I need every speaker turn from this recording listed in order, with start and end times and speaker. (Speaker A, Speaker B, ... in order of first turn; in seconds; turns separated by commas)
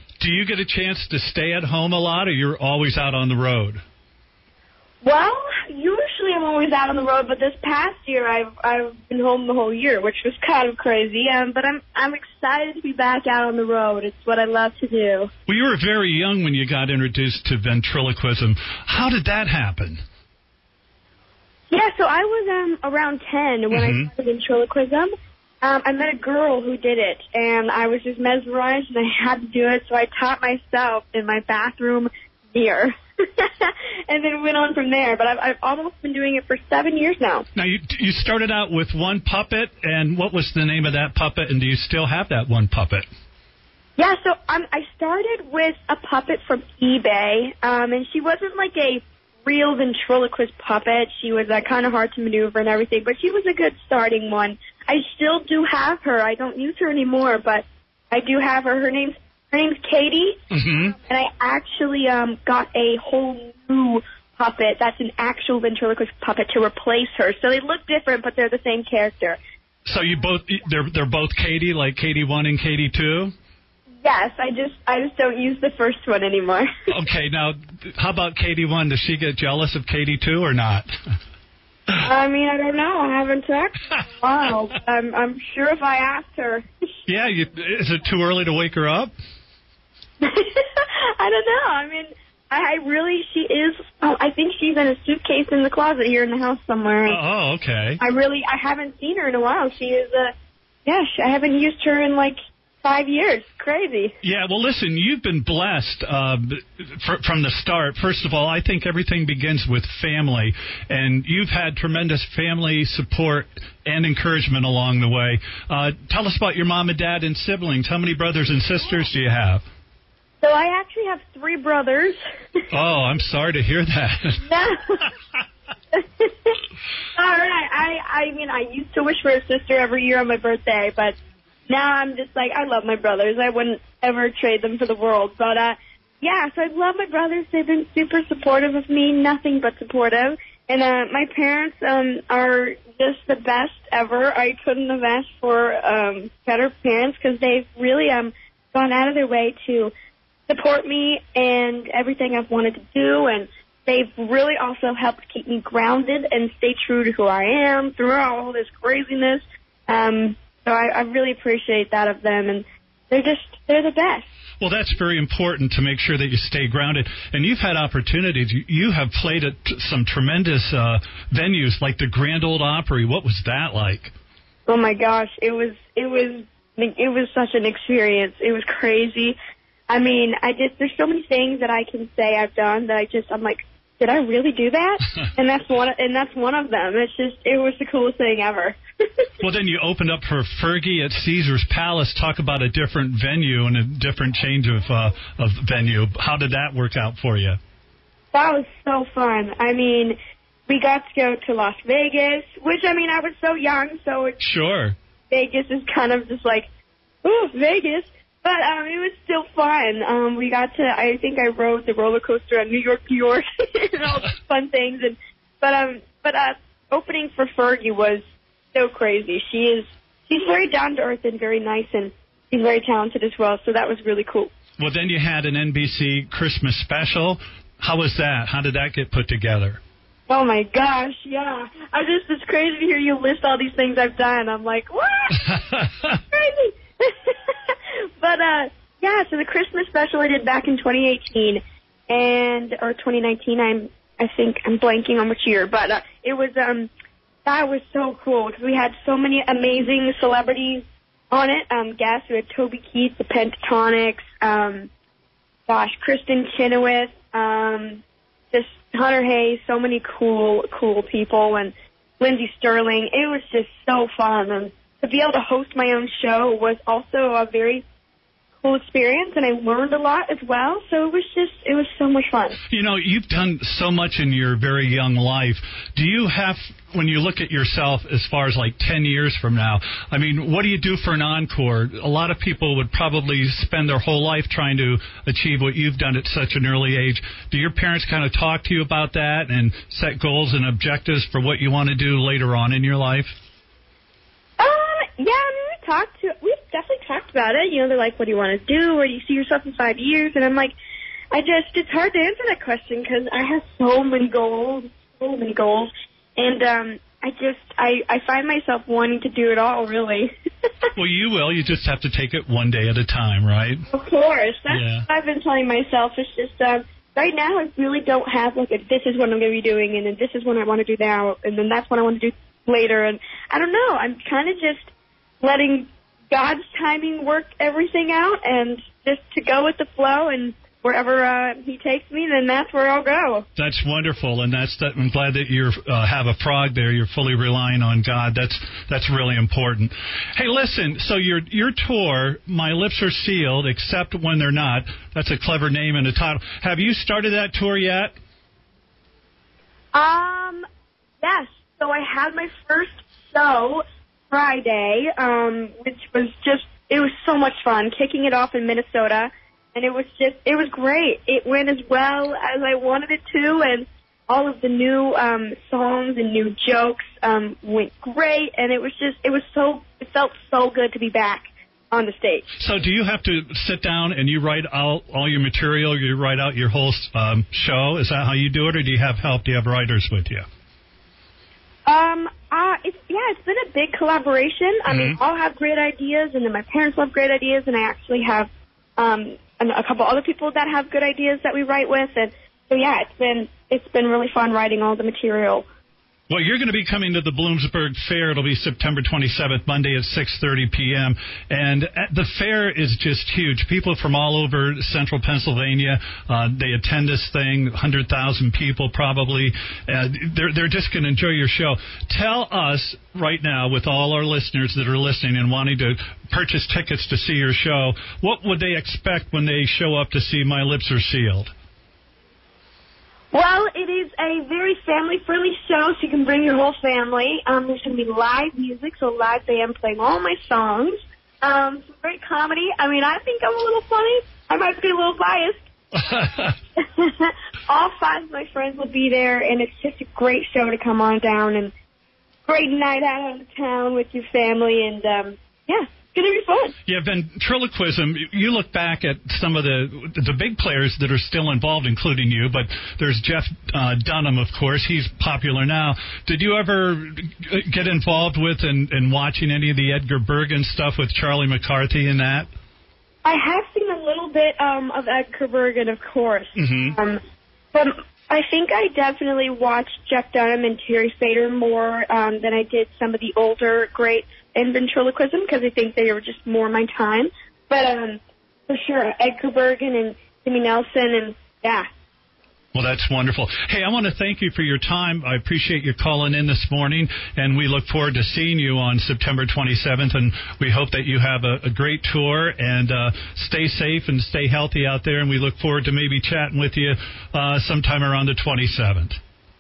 Speaker A: 0.2-3.8, Speaker B: 5.0-15.3, Speaker A: 15.5-20.0, Speaker B: 21.7-25.1, Speaker A: 23.7-24.1, Speaker B: 25.6-37.5, Speaker A: 37.5-43.1, Speaker B: 44.0-60.4, Speaker A: 60.5-61.0, Speaker B: 61.0-69.4, Speaker A: 69.9-73.3, Speaker B: 74.0-76.7, Speaker A: 76.9-80.9, Speaker B: 82.0-86.7, Speaker A: 87.1-89.1, Speaker B: 90.2-97.2, Speaker A: 97.1-98.0, Speaker B: 98.0-100.3, Speaker B: 100.9-104.2, Speaker A: 104.2-119.7, Speaker B: 120.4-122.2, Speaker A: 122.7-124.4, Speaker B: 124.4-125.1, Speaker B: 125.9-126.5, Speaker B: 127.2-131.2, Speaker B: 131.7-149.9, Speaker B: 150.5-164.3, Speaker A: 164.6-174.1, Speaker B: 174.7-179.4, Speaker B: 179.9-188.8, Speaker A: 189.4-197.6, Speaker B: 198.3-200.2, Speaker B: 200.7-204.4, Speaker A: 204.4-205.0, Speaker B: 205.3-206.7, Speaker B: 207.2-218.2, Speaker B: 218.7-224.5, Speaker A: 224.8-229.8, Speaker B: 230.3-235.6, Speaker A: 235.4-235.9, Speaker B: 236.3-246.9, Speaker B: 247.4-254.9, Speaker B: 255.7-267.8, Speaker B: 268.6-272.6, Speaker A: 272.7-293.4, Speaker B: 294.6-300.7, Speaker B: 301.3-310.3, Speaker A: 311.0-313.9, Speaker B: 313.9-333.5, Speaker A: 314.7-315.1, Speaker A: 333.6-348.1, Speaker B: 349.9-350.6, Speaker B: 351.2-372.5, Speaker A: 372.6-380.4, Speaker B: 381.9-395.7, Speaker A: 384.9-385.2, Speaker A: 396.3-421.5, Speaker B: 423.3-435.6, Speaker A: 435.9-436.6, Speaker B: 436.8-441.7, Speaker B: 442.5-446.8, Speaker A: 446.9-462.5, Speaker B: 463.2-467.2, Speaker A: 466.6-467.0, Speaker B: 467.7-481.9, Speaker A: 482.7-499.2